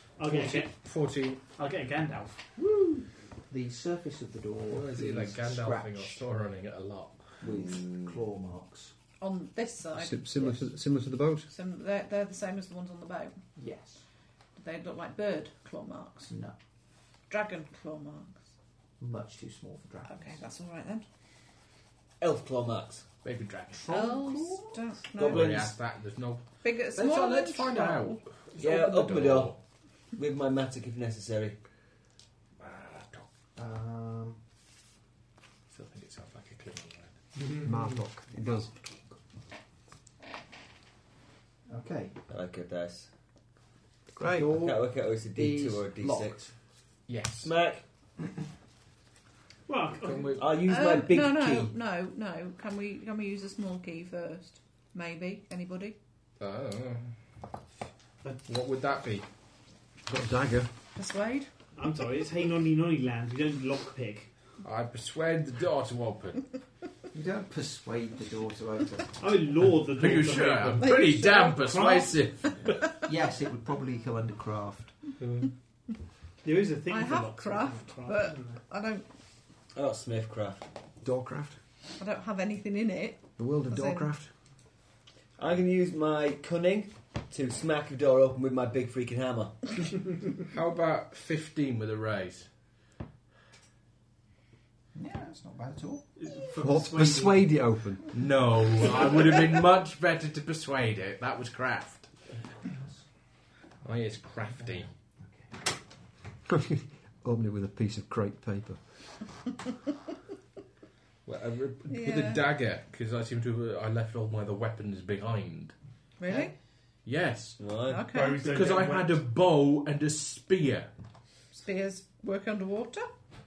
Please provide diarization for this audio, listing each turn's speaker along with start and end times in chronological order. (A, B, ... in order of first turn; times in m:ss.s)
0:00.1-0:01.4 A
0:00.2-0:00.8 B
0:01.5-0:02.6 B
0:03.5-0:06.2 C
0:04.7-0:07.4 A
0:07.4-0:08.9 C
0:07.4-0:08.1 D
0:09.2-0:10.6 E
0:09.9-0:11.5 F
0:11.5-0:13.4 E
0:13.6-0:14.0 C
0:14.6-0:16.3 E
0:16.3-0:16.5 C
0:17.3-0:18.4 E
0:19.0-0:20.4 C
0:20.1-0:21.0 E
0:22.2-0:23.0 D
0:23.2-0:24.1 A
0:23.9-0:25.5 E
0:23.9-0:24.6 C
0:25.2-0:25.8 D
0:25.2-0:29.6 A
0:26.6-0:28.2 E
0:28.6-0:29.5 D
0:30.1-0:31.6 D
0:32.6-0:33.2 A
0:33.6-0:34.4 C
0:35.7-0:37.2 A
0:37.4-0:38.0 B
0:37.6-0:38.7 F
0:41.7-0:42.2 C
0:42.3-0:43.1 D
0:44.2-0:44.6 F
0:44.2-0:46.5 C
0:44.5-0:46.4 D
0:47.1-0:47.5 A
0:47.4-0:47.8 D
0:49.7-0:50.4 B
0:50.0-0:50.5 A
0:50.4-0:51.7 D
0:50.6-0:56.0 E
0:56.4-0:57.2 A
0:58.4-0:59.2 A
1:00.0-1:00.7 F
1:00.9-1:01.5 E
1:01.8-1:04.3 B
1:04.6-1:06.5 A
1:07.1-1:09.2 C
1:09.2-1:11.0 B
1:10.0-1:12.7 A
1:10.8-1:11.6 E
1:11.6-1:12.2 B
1:13.0-1:15.0 C
1:16.4-1:18.6 B
1:16.9-1:19.0 E
1:19.7-1:20.6 D
1:21.0-1:21.6 F
1:22.0-1:24.1 E
1:23.4-1:24.3 F
1:25.4-1:29.6 D
1:30.4-1:32.5 A
1:34.9-1:36.1 C
1:36.2-1:37.4 B
1:36.6-1:38.0 F
1:38.1-1:42.1 A
1:42.6-1:43.1 C
1:43.8-1:44.9 A
1:44.6-1:45.5 C
1:46.5-1:49.0 F
1:51.2-1:55.7 A
1:51.9-1:52.4 E
1:56.2-1:56.5 E
1:57.0-2:00.9 A
1:57.6-1:58.0 D
1:57.9-1:58.4 E
1:58.1-1:59.2 B
2:01.5-2:03.1 E